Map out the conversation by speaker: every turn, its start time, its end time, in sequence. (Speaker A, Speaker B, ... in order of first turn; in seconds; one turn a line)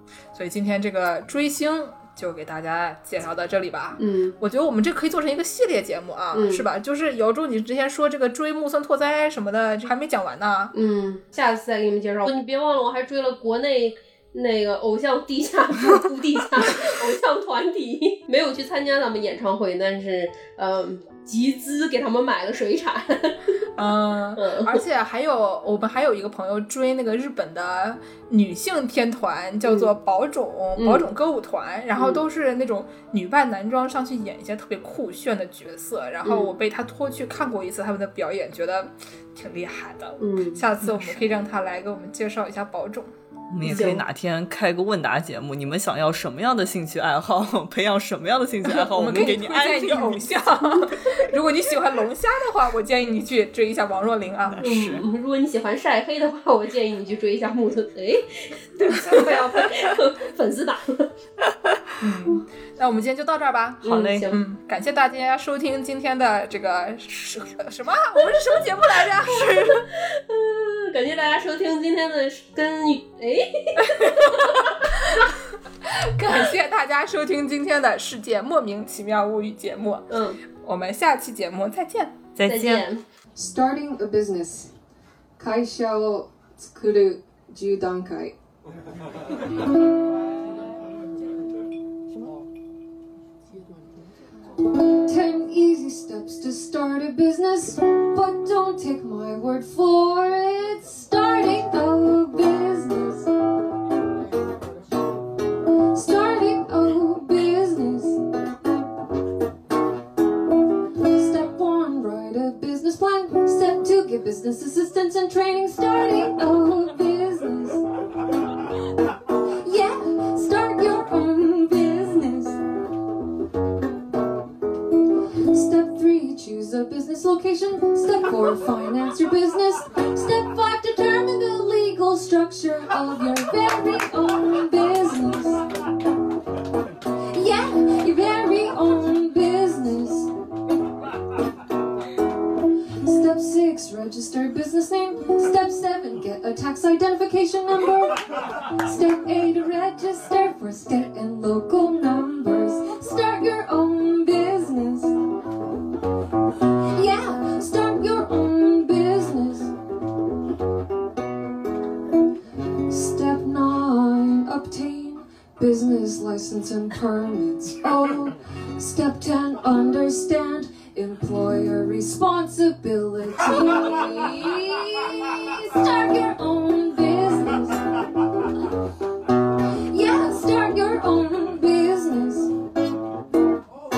Speaker A: 0.3-10.7
Speaker B: 4.0-4.4
Speaker B: 6.3-6.7
Speaker B: 10.7-23.7
Speaker A: 23.8-43.1
Speaker B: 24.4-24.8
Speaker B: 30.8-31.1
Speaker B: 32.0-32.2
Speaker B: 36.2-36.5
Speaker B: 40.2-40.6
Speaker C: 43.5-50.2
Speaker A: 43.6-44.0
Speaker B: 43.6-44.0
Speaker A: 48.8-54.6
Speaker C: 54.6-55.0
Speaker B: 54.6-61.1
Speaker A: 58.8-59.9
Speaker A: 62.0-69.8
Speaker B: 63.8-64.4
Speaker C: 63.8-64.3
Speaker C: 69.3-69.8
Speaker B: 69.4-74.9
Speaker A: 73.9-82.2
Speaker B: 80.1-80.4
Speaker C: 82.4-82.9
Speaker B: 82.5-83.0
Speaker D: 83.4-84.7
Speaker D: 85.4-88.3
Speaker D: 95.0-103.3
Speaker D: 105.9-108.2
Speaker D: 111.0-117.8
Speaker D: 119.6-122.6
Speaker D: 125.5-135.6
Speaker D: 137.3-140.3
Speaker D: 143.0-155.1
Speaker D: 156.9-159.7
Speaker D: 162.9-178.7
Speaker D: 179.9-182.5